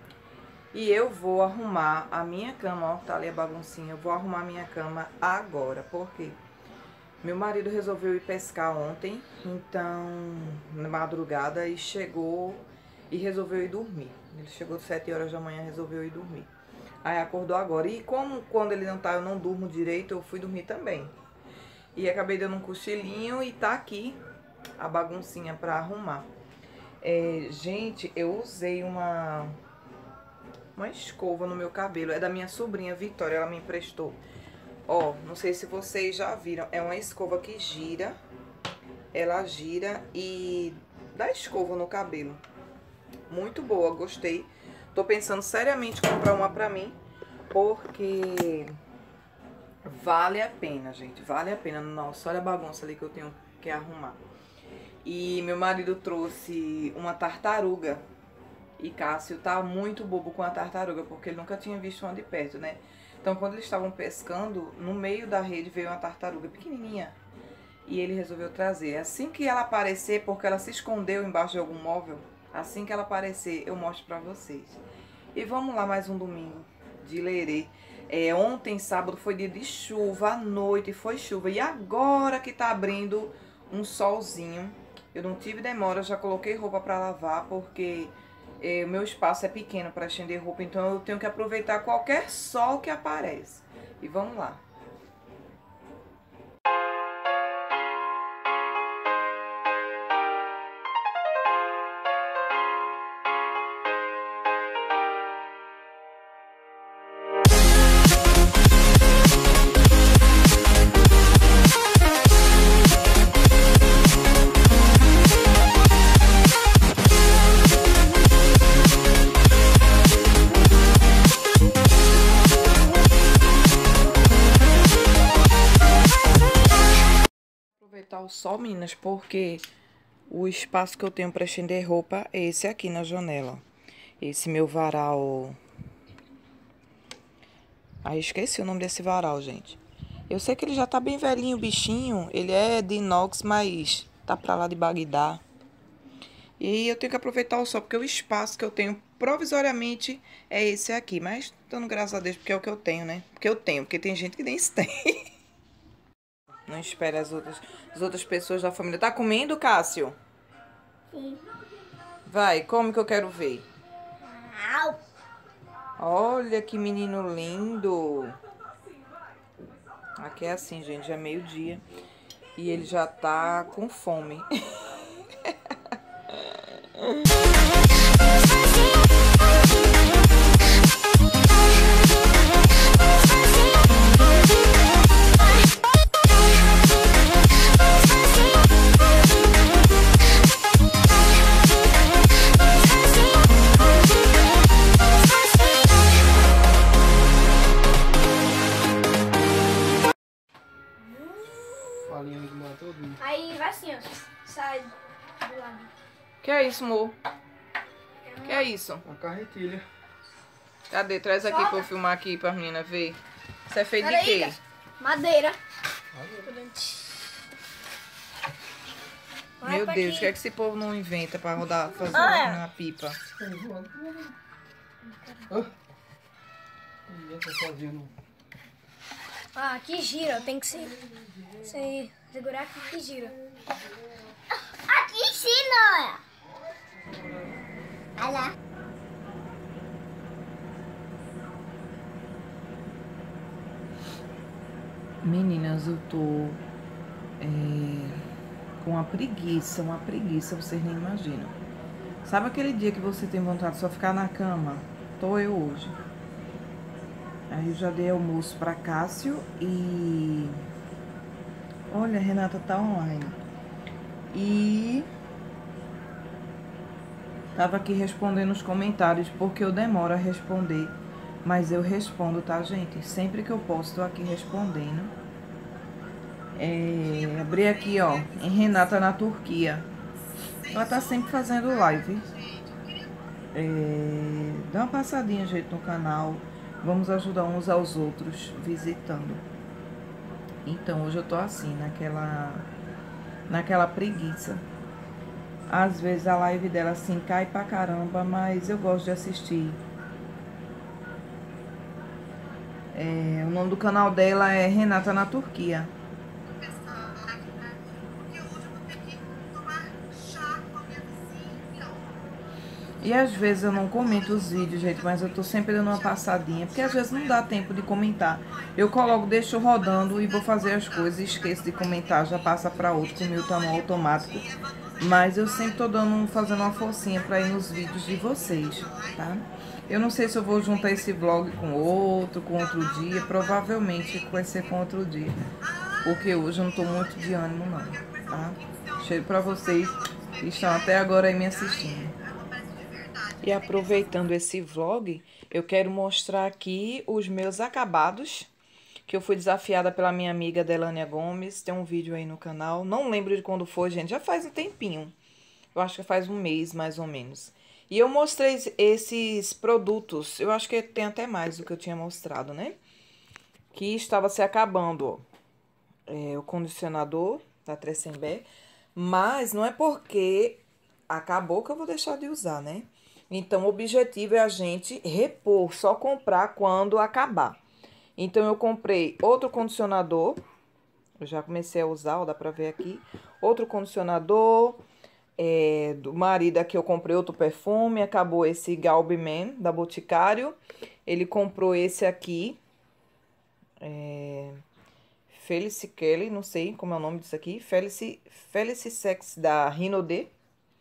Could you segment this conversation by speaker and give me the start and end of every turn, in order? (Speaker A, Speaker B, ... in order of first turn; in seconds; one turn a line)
Speaker A: 0.7-6.4
Speaker A: 7.2-16.5
Speaker A: 17.0-21.1
Speaker A: 21.9-24.2
Speaker A: 24.8-26.3
Speaker A: 27.0-29.6
Speaker A: 30.7-34.2
Speaker A: 34.9-38.1
Speaker A: 39.1-42.4
Speaker A: 43.3-47.0
Speaker A: 47.5-48.8
Speaker A: 49.8-54.2
Speaker A: 55.0-58.0
Speaker A: 58.8-67.2
Speaker A: 67.8-74.8
Speaker A: 75.3-94.6
Speaker A: 127.8-129.7
Speaker A: 130.3-133.6
Speaker A: 134.2-135.6
Speaker A: 138.0-145.4
Speaker A: 146.6-155.3
Speaker A: 156.7-160.2
Speaker B: 161.1-161.4
Speaker A: 162.2-163.7
Speaker B: 164.2-165.0
Speaker A: 166.0-168.4
Speaker A: 170.2-171.8
Speaker A: 172.5-175.5
Speaker A: 176.3-177.2
Speaker B: 201.1-202.0
Speaker C: 202.1-203.2
Speaker B: 203.2-205.9
Speaker A: 206.4-207.2
Speaker B: 208.3-208.6
Speaker A: 208.4-209.0
Speaker C: 209.0-209.8
Speaker A: 210.9-214.6
Speaker B: 214.0-215.6
Speaker C: 216.1-216.4
Speaker B: 216.4-217.3
Speaker B: 219.6-220.3
Speaker A: 219.6-223.2
Speaker B: 222.2-222.5
Speaker C: 223.4-224.3
Speaker B: 225.1-225.6
Speaker C: 227.1-228.1
Speaker B: 229.6-231.0
Speaker B: 231.5-233.3
Speaker B: 234.8-236.2
Speaker B: 238.2-238.5
Speaker A: 245.2-246.6
Speaker A: 247.4-248.2
Speaker A: 248.8-251.6
Speaker A: 252.2-255.9
Speaker A: 257.5-260.6
Speaker A: 261.9-263.4
Speaker A: 264.3-265.1
Speaker A: 267.5-275.1
Speaker A: 276.6-279.9
Speaker A: 280.7-282.3
Speaker A: 283.5-289.4
Speaker A: 290.6-292.7
Speaker A: 293.5-294.6
Speaker A: 295.7-299.8
Speaker A: 302.9-305.9
Speaker A: 313.0-335.4
Speaker A: 336.0-342.1
Speaker A: 343.4-348.5
Speaker A: 349.1-355.1
Speaker A: 355.7-362.8
Speaker A: 363.7-365.2
Speaker A: 366.1-377.6
Speaker A: 378.2-380.4
Speaker A: 381.2-384.8
Speaker A: 385.4-392.6
Speaker A: 393.8-394.6
Speaker A: 395.3-400.3